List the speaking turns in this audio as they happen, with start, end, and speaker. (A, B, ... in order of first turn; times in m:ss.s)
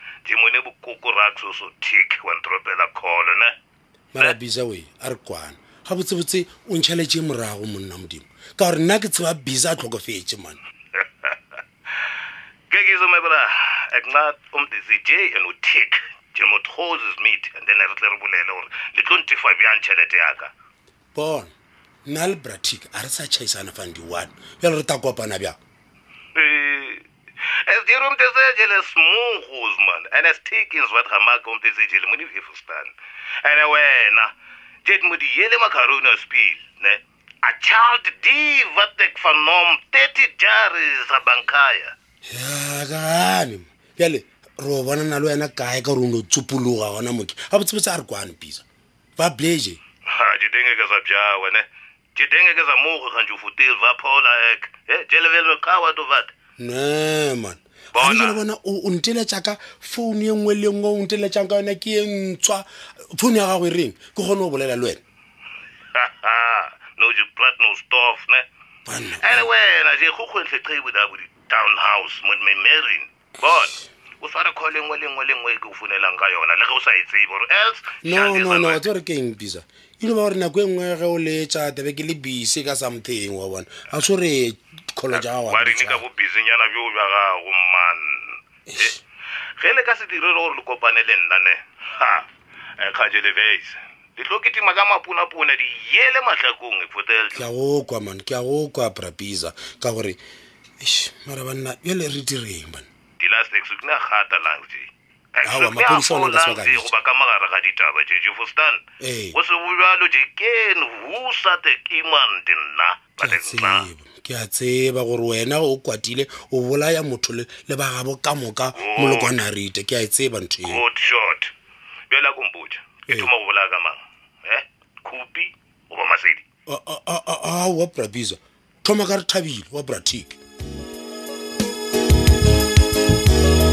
0:00.3-0:03.5 A
0:04.1-0:10.6 B
0:11.0-0:11.4 A
0:12.7-0:20.5 A
0:21.2-0:21.5 B
0:22.1-0:25.6 B
0:26.4-0:32.9 A
0:33.4-0:34.3 A
0:34.8-0:41.9 A
0:42.3-0:48.6 B
0:49.2-0:49.8 B
0:50.1-0:51.6 A
0:52.2-0:56.3 A
0:56.6-1:05.0 B
0:58.0-0:58.4 A
1:06.0-1:08.4 A
1:08.9-1:09.5 B
1:09.2-1:18.9 A
1:18.0-1:26.1 B
1:25.1-1:29.0 A
1:28.7-1:29.0 B
1:29.6-1:32.3 A
1:32.8-1:37.4 A
1:37.4-1:40.2 B
1:40.8-1:42.9 B
1:43.2-1:48.8 A
1:45.4-1:46.9 B
1:49.0-1:49.4 B
1:49.3-1:53.9 A
1:53.2-2:00.8 B
1:58.8-1:59.3 A
2:00.6-2:01.5 A
2:02.1-2:06.4 A
2:06.7-2:10.4 B